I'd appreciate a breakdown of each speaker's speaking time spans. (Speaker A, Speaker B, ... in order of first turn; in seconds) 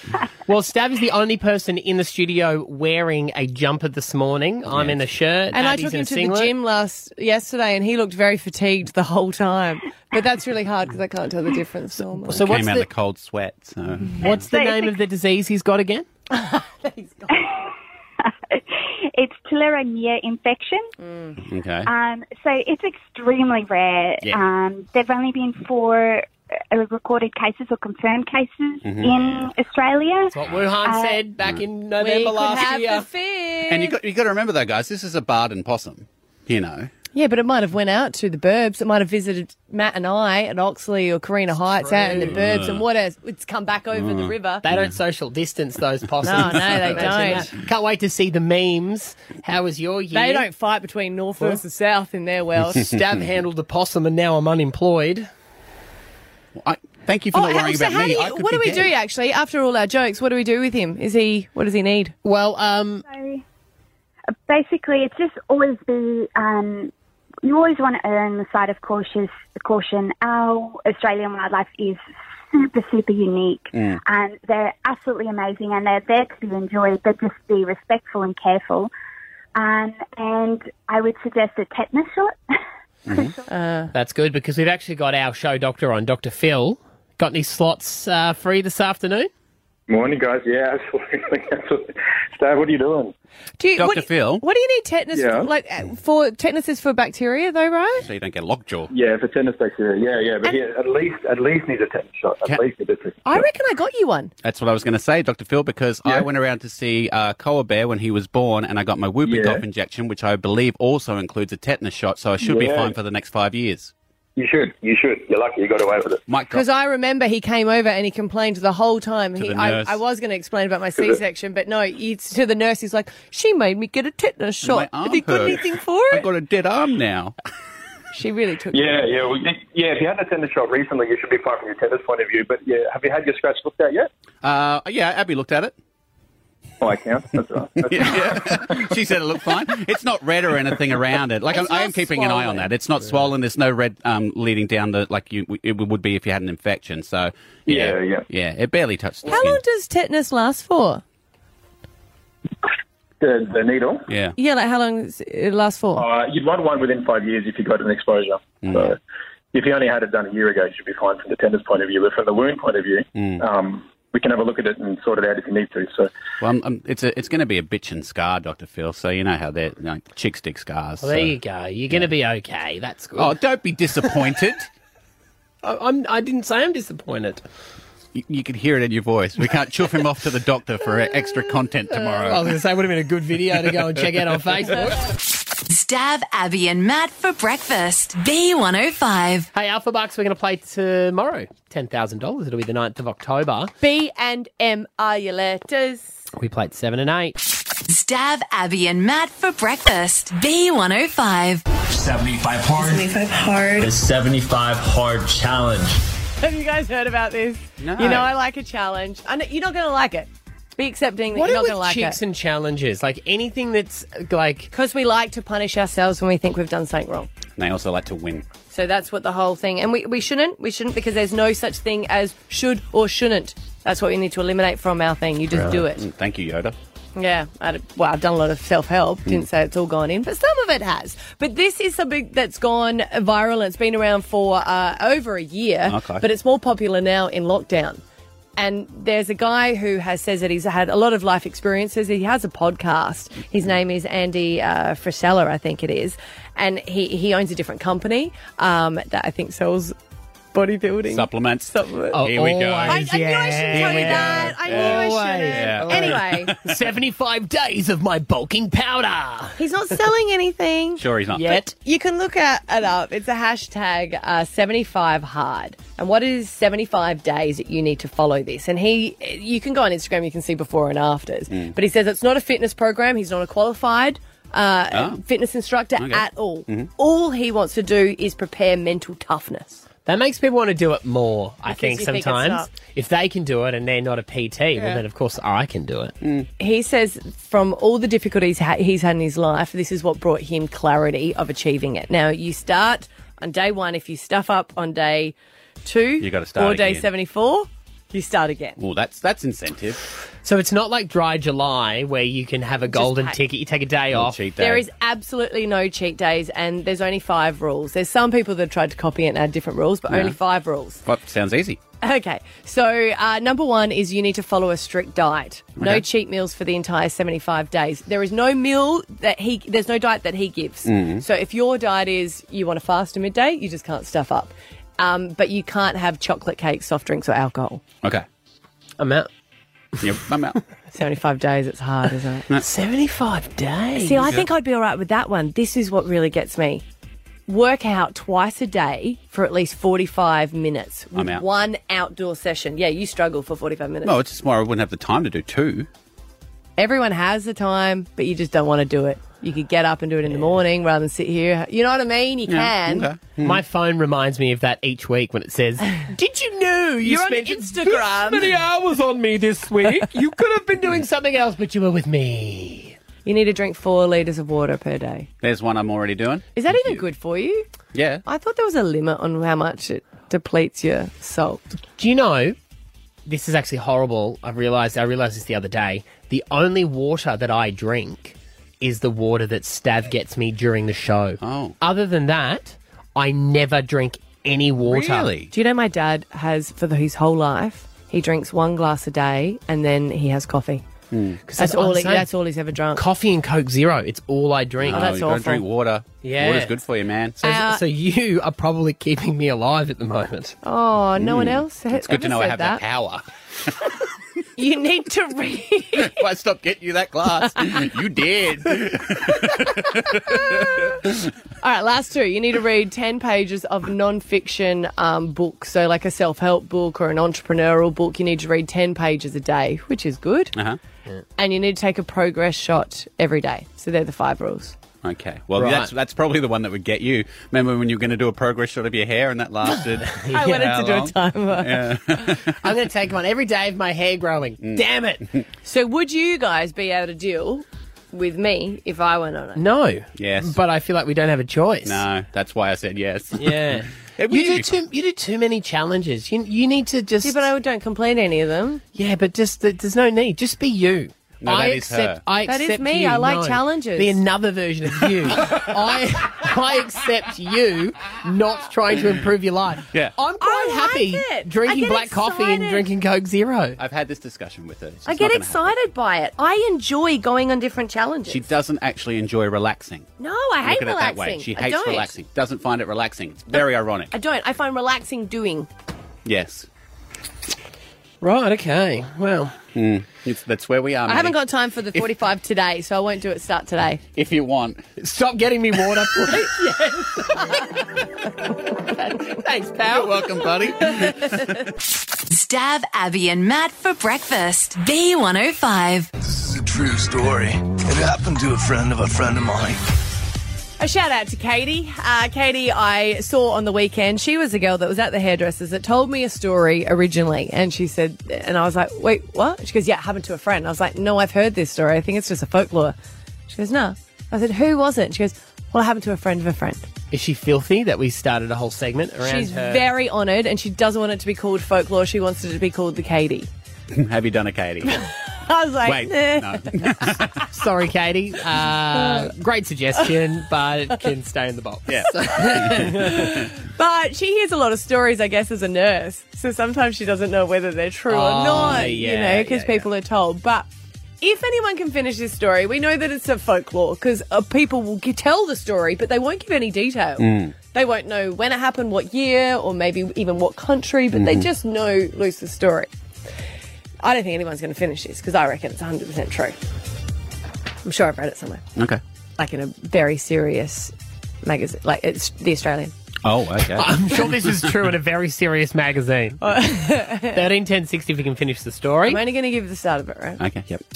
Speaker A: 0.5-6.5, 12.3-12.9, 14.2-16.1, 30.3-33.1, 41.8-42.4, 44.6-50.5, 52.8-55.3, 62.2-63.0, 83.9-89.3, 171.0-173.3, 175.6-177.4, 181.9-185.0, 189.5-193.7, 196.4-197.3, 211.3-214.7, 252.1-259.6, 261.3-261.7, 280.1-286.1, 300.4-304.4, 329.0-329.3, 332.6-334.3, 353.4-363.0, 372.0-372.6, 373.3-385.3, 391.5-392.3, 392.9-395.2, 396.2-396.8, 397.4-400.6, 425.6-425.9, 430.1-430.7, 432.5-435.2, 439.6-442.0, 443.4-447.5, 448.9-463.8, 478.2-479.6, 485.0-487.7, 488.9-490.5, 517.1-519.9, 527.5-533.3, 538.1-539.9, 563.8-566.8, 567.3-569.2
Speaker B: 4.7-5.0, 12.4-14.4, 21.4-21.9, 28.8-29.5, 33.7-36.9, 42.2-42.8, 44.0-44.8, 46.8-47.5, 56.6-58.9, 83.1-83.3, 93.8-94.4, 98.0-98.9, 104.4-113.9, 116.3-116.7, 119.4-120.0, 124.6-127.3, 134.4-135.8, 137.8-149.6, 154.1-154.4, 158.6-158.9, 163.2-163.4, 166.4-171.3, 173.2-174.7, 178.1-182.5, 207.8-208.3, 217.6-218.4, 225.7-226.8, 235.9-236.2, 251.1-253.1, 253.7-256.6, 261.0-261.6, 271.5-271.8, 274.9-275.2, 276.0-276.9, 286.2-286.5, 296.2-297.1, 298.8-300.0, 304.1-304.9, 310.1-310.4, 311.1-311.8, 315.8-316.1, 320.9-321.2, 330.0-330.6, 341.1-341.4, 344.0-345.9, 352.5-353.6, 365.4-367.0, 367.9-368.2, 381.4-381.8, 384.9-385.5, 391.1-391.4, 394.8-397.4, 401.2-403.2, 406.0-411.1, 425.0-432.6, 434.6-435.4, 440.2-440.6, 441.9-444.7, 451.4-452.2, 463.8-465.7, 468.3-470.1, 470.6-474.1, 476.2-476.7, 479.8-481.4, 484.1-484.8, 489.9-491.6, 523.9-525.0, 525.8-527.5, 531.9-532.9, 547.2-547.6, 551.1-551.5, 563.2-564.3, 570.4-570.8
Speaker C: 5.5-12.4, 16.3-17.4, 21.0-21.4, 32.0-34.0, 37.1-44.6, 46.2-47.5, 50.1-52.9, 57.3-62.1, 83.5-83.9, 93.6-98.1, 103.2-104.3, 116.5-126.3, 128.1-129.1, 141.5-142.7, 149.3-151.0, 154.4-156.1, 193.8-196.1, 206.4-212.2, 214.7-217.3, 218.7-226.1, 227.2-238.0, 238.6-249.9, 250.5-252.2, 252.9-256.6, 259.6-261.0, 261.7-279.8, 281.7-282.7, 286.6-298.8, 302.9-303.4, 304.6-311.0, 312.0-327.8, 330.9-332.5, 334.0-336.8, 337.5-344.2, 346.8-353.1, 357.0-358.6, 363.2-365.3, 366.6-367.7, 368.2-371.6, 385.5-390.9, 391.6-393.0, 394.9-395.6, 397.4-397.8, 400.6-402.8, 404.6-406.2, 410.3-411.0, 411.6-420.6, 421.4-424.8, 430.3-432.0, 435.6-439.6, 447.2-448.8, 452.4-454.2, 460.4-462.9, 465.1-468.5, 470.2-472.1, 474.1-475.7, 481.1-484.0, 500.8-513.0, 513.5-516.9, 519.2-523.5, 524.9-527.1, 529.0-529.3, 532.9-540.7, 541.2-552.9, 554.0-556.6, 557.8-558.6, 559.4-562.9, 566.4-567.4, 569.1-570.4
Speaker D: 14.2-14.9, 17.3-17.7, 18.2-20.9, 21.9-31.2, 63.1-63.4, 64.5-66.9, 67.4-78.9, 79.5-82.4, 83.1-83.4
Speaker E: 89.9-93.1, 95.1-95.5, 98.9-103.5, 109.2-109.6, 112.4-113.0, 114.4-116.2, 128.7-134.1, 136.8-139.0, 147.7-148.3, 153.2-154.1, 156.0-159.0, 159.5-166.1
Speaker F: 185.7-189.5, 197.9-201.6, 492.3-496.1
Speaker G: 201.9-203.2, 203.8-206.1
Speaker H: 496.2-499.8